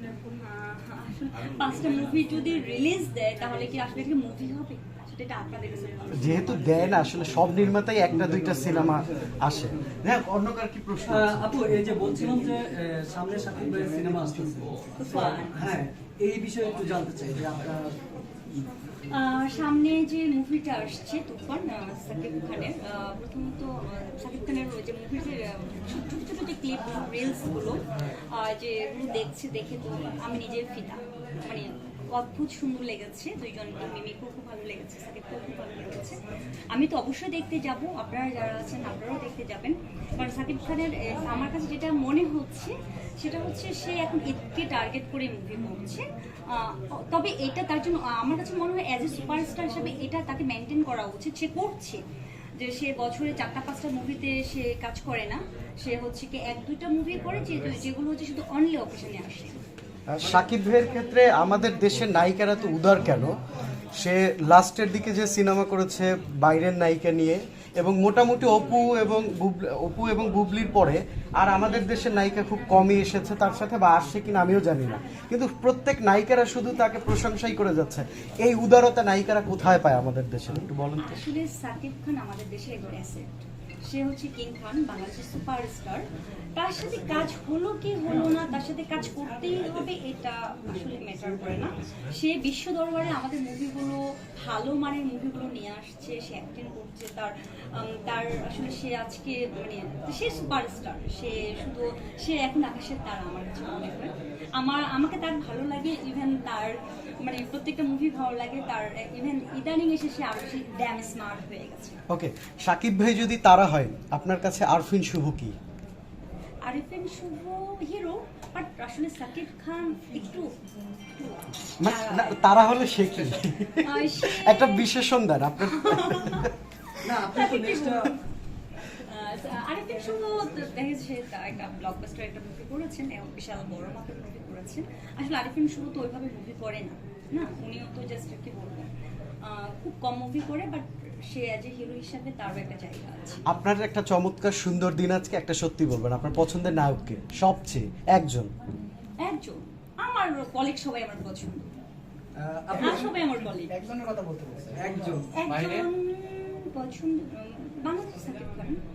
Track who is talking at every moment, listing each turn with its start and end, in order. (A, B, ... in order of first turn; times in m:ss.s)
0:00.3-0:06.4 A
0:06.2-0:11.6 B
0:11.0-0:18.0 C
0:15.0-0:15.6 A
0:19.1-0:36.2 A
0:36.7-0:52.0 A
0:52.6-0:59.6 A
1:00.1-1:03.4 B
1:04.0-1:21.2 B
1:21.0-1:52.0 A
1:52.1-1:55.5 B
1:56.6-2:00.5 A
2:01.1-2:02.6 A
2:01.8-2:06.5 B
2:03.8-2:04.9 A
2:05.6-2:06.5 A
2:07.0-2:08.1 C
2:07.2-2:08.2 A
2:08.9-2:18.9 A
2:19.4-2:23.4 A
2:23.5-2:28.5 B
2:29.2-2:31.7 A
2:32.4-2:33.1 C
2:32.8-2:33.8 A
2:33.7-2:35.9 D
2:34.7-2:35.3 C
2:35.3-2:38.8 A